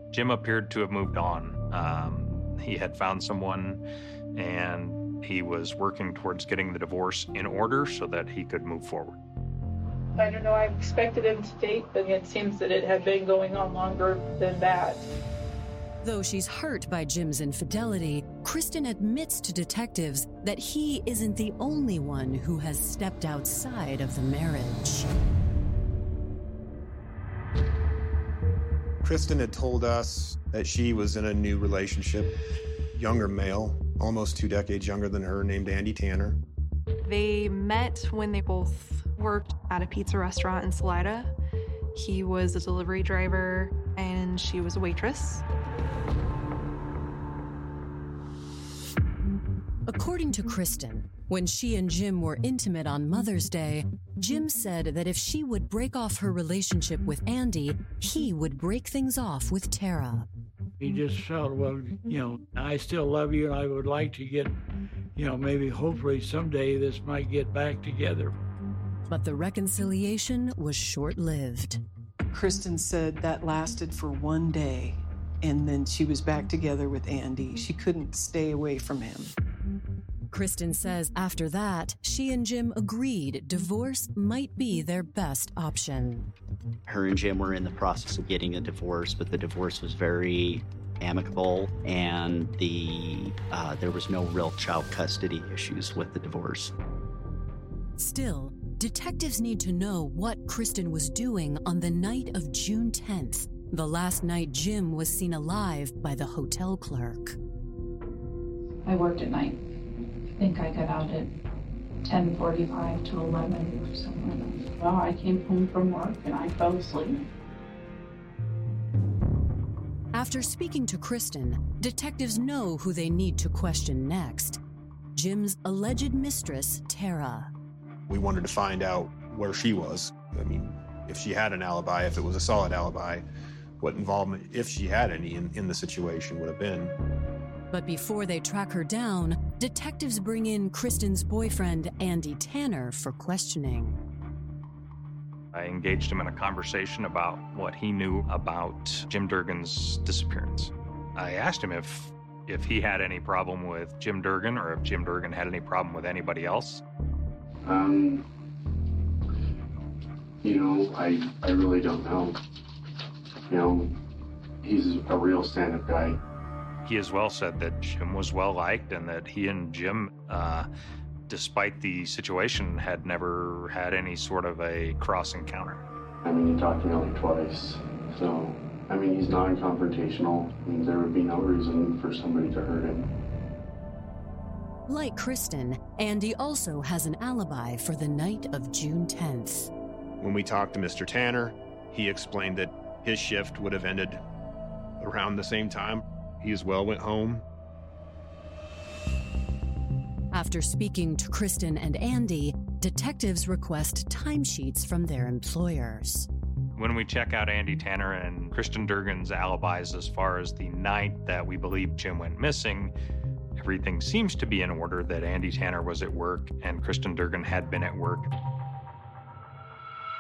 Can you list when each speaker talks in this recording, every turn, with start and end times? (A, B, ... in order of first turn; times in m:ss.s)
0:00.1-0:03.8 A
0:04.3-0:09.2 A
0:10.2-0:15.0 B
0:16.0-0:25.1 C
0:29.0-0:32.3 D
0:32.9-0:36.4 D
0:37.0-0:41.3 E
0:41.9-0:45.4 E
0:49.9-1:00.3 C
1:00.8-1:04.6 F
1:05.1-1:08.3 F
1:09.1-1:11.8 C
1:12.3-1:19.3 G
1:20.3-1:26.3 C
1:26.8-1:36.7 H
1:38.0-1:47.4 C
1:48.8-1:49.6 I
1:50.4-1:51.3 I
1:52.0-1:57.2 I
2:00.1-2:04.6 C
2:05.2-2:07.5 C
2:08.1-2:13.2 D
2:13.8-2:17.0 D
2:17.7-2:24.0 C
2:25.5-2:36.8 A
2:37.6-2:38.2 J
2:40.4-2:42.4 J
2:43.5-2:43.9 J
2:44.6-2:46.2 J
2:46.8-2:50.7 A
2:51.3-2:55.8 A
2:56.2-3:03.0 J
3:04.9-3:09.7 C
3:10.2-3:14.2 D
3:15.0-3:17.4 D
3:20.3-3:26.3 C
3:26.8-3:32.9 A
3:33.6-3:38.3 A